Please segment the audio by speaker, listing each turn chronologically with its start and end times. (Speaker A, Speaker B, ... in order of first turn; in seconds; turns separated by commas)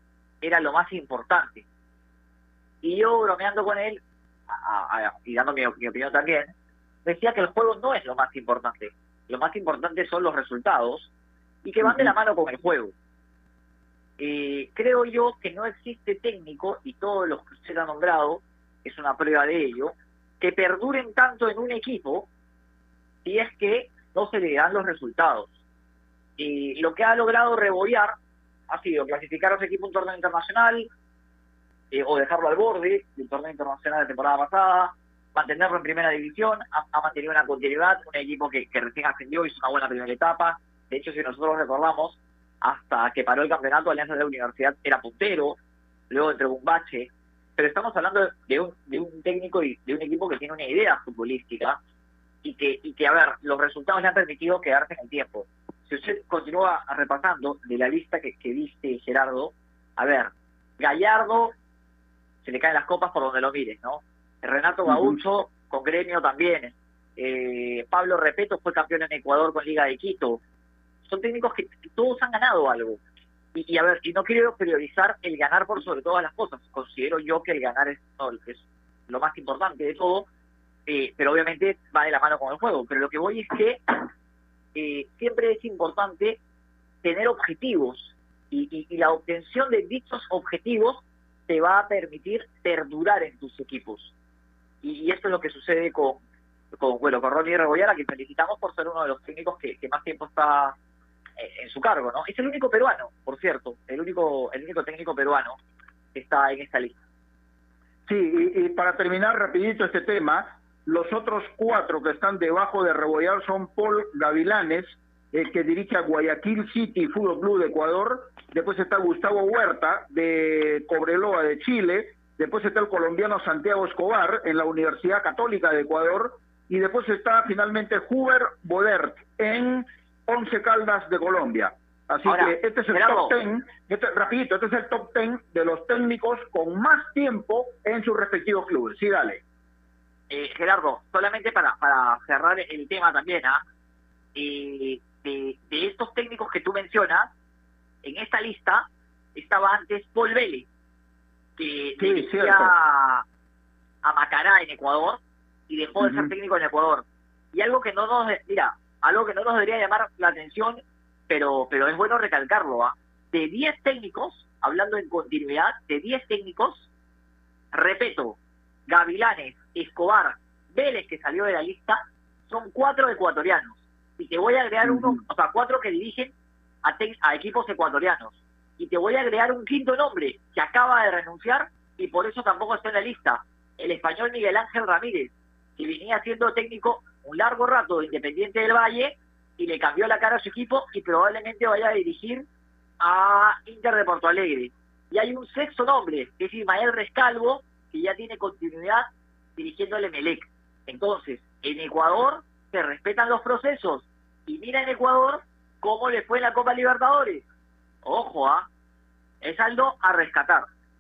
Speaker A: 0.4-1.6, Speaker A: 2.8-6.5, Speaker A: 7.0-11.1, Speaker A: 11.6-12.9, Speaker B: 11.8-12.1, Speaker A: 14.2-22.3, Speaker A: 23.2-25.5, Speaker A: 26.4-28.1, Speaker A: 28.7-30.9, Speaker A: 31.9-45.6, Speaker A: 46.1-51.8, Speaker A: 52.4-61.5, Speaker A: 62.4-70.4, Speaker B: 64.9-65.2, Speaker A: 71.0-73.0, Speaker A: 73.5-80.3, Speaker A: 80.9-84.1, Speaker A: 84.8-86.4, Speaker A: 87.0-94.1, Speaker A: 94.8-96.2, Speaker A: 96.8-100.8, Speaker A: 101.4-105.6, Speaker A: 106.1-107.0, Speaker B: 108.1-139.4, Speaker A: 132.2-133.4, Speaker A: 140.3-143.6, Speaker A: 144.3-147.3, Speaker A: 148.0-150.7, Speaker A: 151.6-153.2, Speaker B: 152.0-152.7, Speaker A: 154.0-166.9, Speaker B: 156.0-156.3, Speaker A: 167.7-192.5, Speaker A: 193.0-207.4, Speaker A: 208.0-208.7, Speaker A: 209.4-210.7